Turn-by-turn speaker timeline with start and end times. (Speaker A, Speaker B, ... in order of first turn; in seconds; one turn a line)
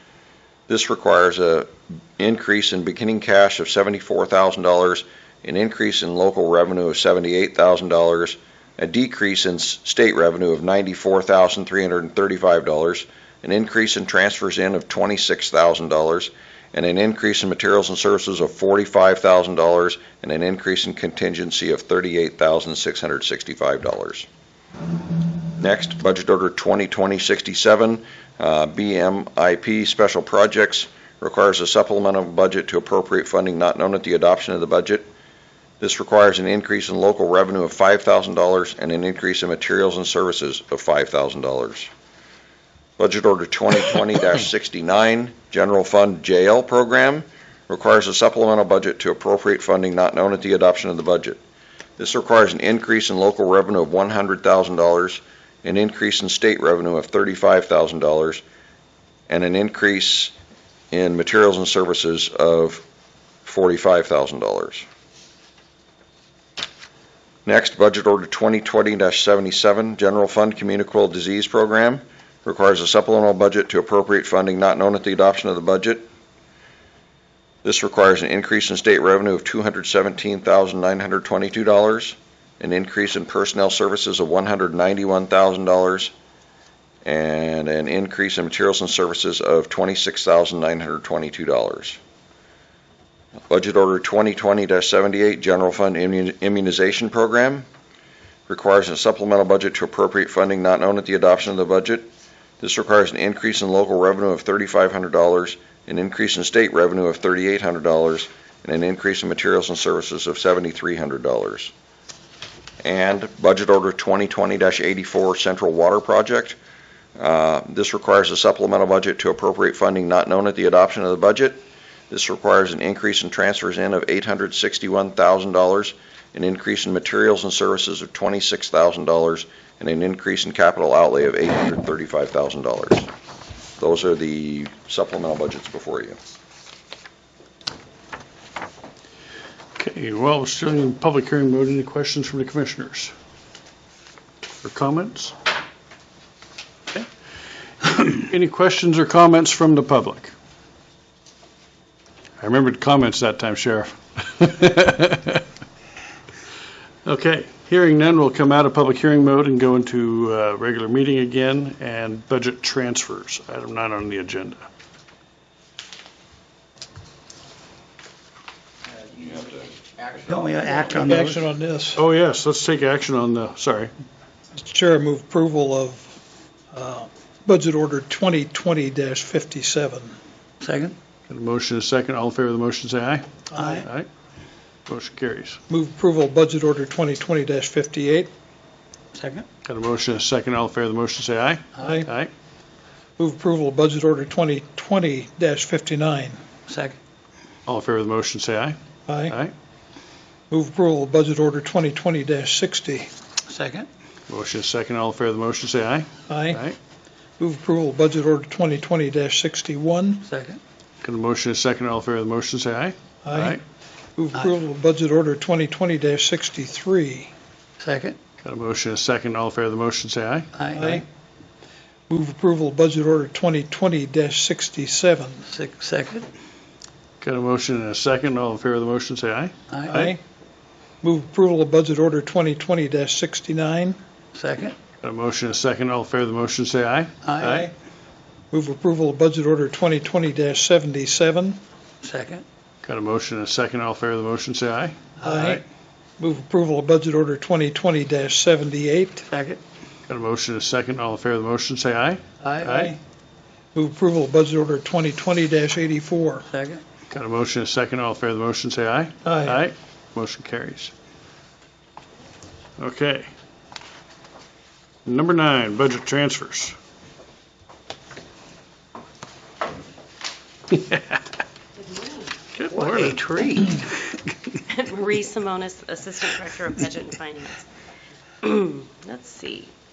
Speaker A: 0.7-24.3
Speaker A: 25.6-35.1
Speaker A: 35.8-41.9
Speaker A: 43.0-51.4
Speaker A: 52.0-58.4
Speaker A: 59.3-60.3
Speaker A: 60.9-62.8
Speaker A: 63.5-64.9
Speaker A: 67.5-76.1
Speaker A: 77.6-86.1
Speaker A: 87.0-92.0
Speaker A: 93.5-97.7
Speaker A: 98.5-102.1
Speaker A: 102.6-111.7
Speaker A: 112.8-116.6
Speaker A: 117.2-133.1
Speaker A: 133.8-136.2
Speaker B: 139.8-143.1
Speaker B: 144.6-145.3
Speaker B: 147.8-150.3
Speaker B: 152.4-155.4
Speaker B: 157.1-164.7
Speaker C: 170.2-171.4
Speaker D: 170.9-172.0
Speaker B: 172.0-173.9
Speaker D: 174.6-176.2
Speaker D: 176.7-180.2
Speaker C: 180.6-181.0
Speaker B: 181.3-184.1
Speaker B: 184.9-185.6
Speaker D: 185.7-188.3
Speaker C: 189.2-189.5
Speaker B: 189.7-192.3
Speaker D: 191.8-192.1
Speaker D: 193.2-196.4
Speaker C: 196.7-197.0
Speaker B: 197.7-198.8
Speaker D: 199.1-199.4
Speaker D: 200.5-203.1
Speaker C: 203.5-203.9
Speaker B: 204.3-206.8
Speaker D: 206.3-206.7
Speaker D: 207.4-210.3
Speaker C: 210.2-210.6
Speaker B: 211.0-213.6
Speaker D: 213.2-213.6
Speaker D: 214.2-217.3
Speaker C: 217.8-218.2
Speaker B: 218.4-220.5
Speaker C: 220.6-221.1
Speaker D: 220.8-221.1
Speaker D: 222.1-225.5
Speaker C: 225.5-226.3
Speaker B: 227.2-230.1
Speaker C: 229.7-230.0
Speaker D: 229.9-230.2
Speaker D: 231.0-234.0
Speaker C: 234.3-234.8
Speaker B: 235.0-237.7
Speaker C: 237.2-237.7
Speaker D: 238.5-241.6
Speaker C: 242.0-242.4
Speaker B: 242.8-245.5
Speaker C: 245.2-245.6
Speaker D: 245.2-245.6
Speaker D: 246.2-249.2
Speaker C: 249.2-249.6
Speaker B: 250.1-253.0
Speaker D: 252.6-253.0
Speaker D: 253.7-256.5
Speaker C: 256.4-256.8
Speaker B: 257.1-260.9
Speaker D: 259.2-259.6
Speaker B: 262.8-263.3
Speaker B: 265.1-266.8
Speaker B: 270.7-271.2
Speaker E: 271.8-272.4
Speaker B: 272.6-273.8
Speaker C: 273.0-273.8
Speaker E: 274.7-277.7
Speaker E: 278.4-279.7